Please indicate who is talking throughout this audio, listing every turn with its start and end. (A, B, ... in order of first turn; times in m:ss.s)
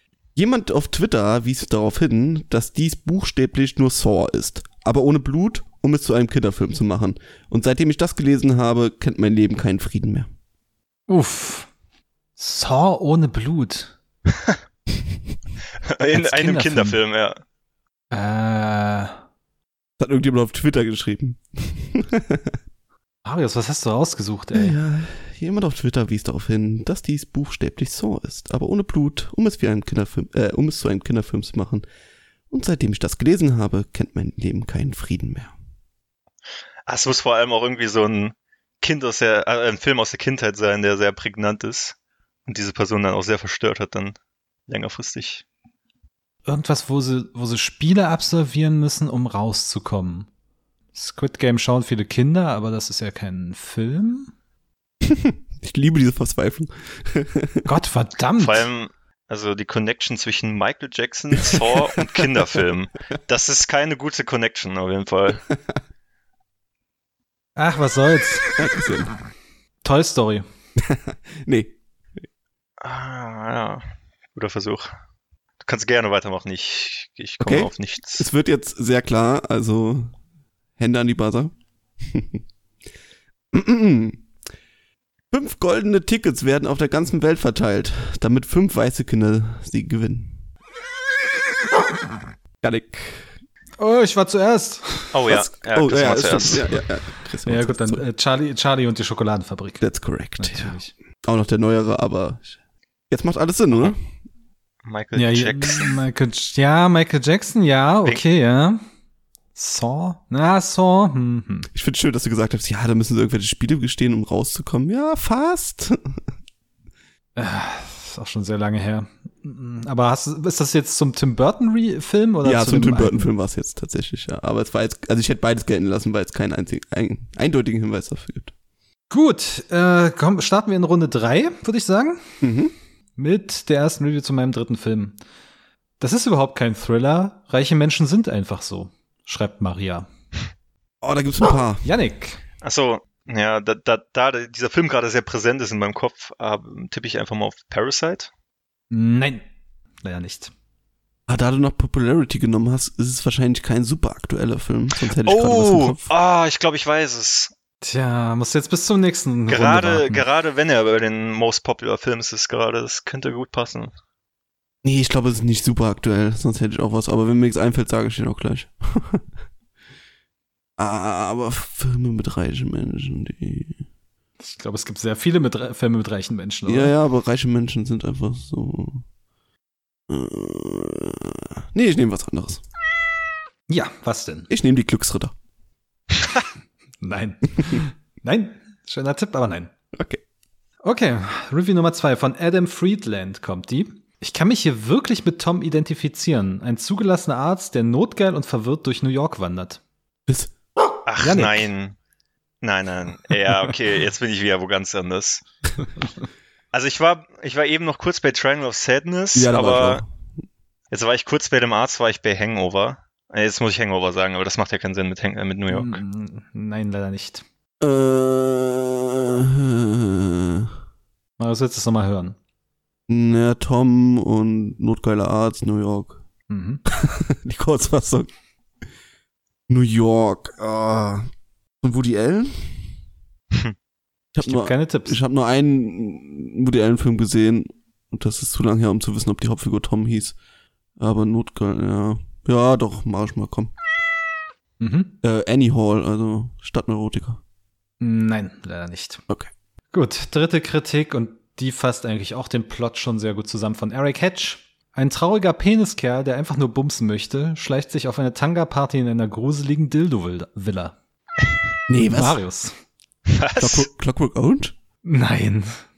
0:00.4-0:10.3 A
0:11.1-0:11.7 B
0:12.4-0:14.0 B
0:15.9-0:17.4 C
0:16.1-0:17.0 B
0:18.1-0:19.2 B
0:20.0-0:22.6 A
0:23.2-0:24.8 B
0:24.5-0:31.8 A
0:32.5-0:35.5 A
0:36.9-0:42.0 C
0:42.5-0:44.2 C
0:44.7-0:45.4 C
0:46.4-0:50.3 B
0:51.0-0:54.3 B
0:55.0-0:57.7 A
0:57.6-0:58.7 B
0:58.4-1:05.4 C
1:01.3-1:02.6 A
1:07.6-1:08.5 B
1:08.6-1:09.2 A
1:09.8-1:10.5 B
1:10.8-1:11.8 A
1:12.8-1:13.8 C
1:14.4-1:14.9 C
1:15.6-1:18.3 C
1:17.4-1:20.1 A
1:20.8-1:22.4 A
1:23.5-1:24.2 A
1:25.3-1:30.4 A
1:32.6-1:33.3 A
1:33.8-1:35.2 B
1:35.1-1:36.7 C
1:35.3-1:38.0 A
1:37.5-1:39.8 B
1:39.8-1:42.5 A
1:40.4-1:40.9 B
1:43.1-1:44.0 A
1:44.8-1:46.0 C
1:45.2-1:48.8 B
1:49.6-1:51.7 B
1:51.7-1:56.2 A
1:57.4-2:03.3 B
2:02.4-2:08.5 A
2:09.1-2:12.4 B
2:12.4-2:12.7 A
2:13.2-2:15.2 B
2:16.0-2:20.1 B
2:21.0-2:21.9 A
2:21.8-2:22.4 B
2:22.6-2:28.3 C
2:28.9-2:29.4 B
2:30.0-2:30.5 B
2:31.3-2:36.1 A
2:35.2-2:37.5 C
2:37.8-2:40.2 B
2:39.5-2:43.9 C
2:44.8-2:49.2 A
2:50.8-2:53.8 A
2:54.4-2:56.9 B
2:56.7-2:59.0 A
3:00.1-3:02.6 A
3:03.7-3:04.5 B
3:04.5-3:05.3 A
3:07.0-3:09.7 B
3:09.9-3:10.2 A
3:10.8-3:19.8 B
3:20.3-3:20.5 A
3:21.1-3:22.0 C
3:21.2-3:21.7 B
3:22.6-3:25.4 C
3:26.7-3:30.0 C
3:29.4-3:30.1 A
3:30.9-3:36.0 C
3:35.7-3:37.4 B
3:37.8-3:40.7 A
3:41.4-3:42.4 B
3:43.1-3:46.2 A
3:46.5-3:46.8 B
3:46.9-3:48.3 A
3:49.7-3:51.3 A
3:51.8-3:52.8 A
3:54.3-4:00.4 A
3:54.4-3:55.2 B
4:01.0-4:03.7 A
4:04.8-4:05.2 B
4:05.2-4:07.4 A
4:08.0-4:09.2 B
4:09.9-4:21.0 B
4:21.9-4:22.4 A
4:22.1-4:22.7 B
4:23.3-4:23.9 C
4:23.6-4:24.8 A
4:25.0-4:25.8 B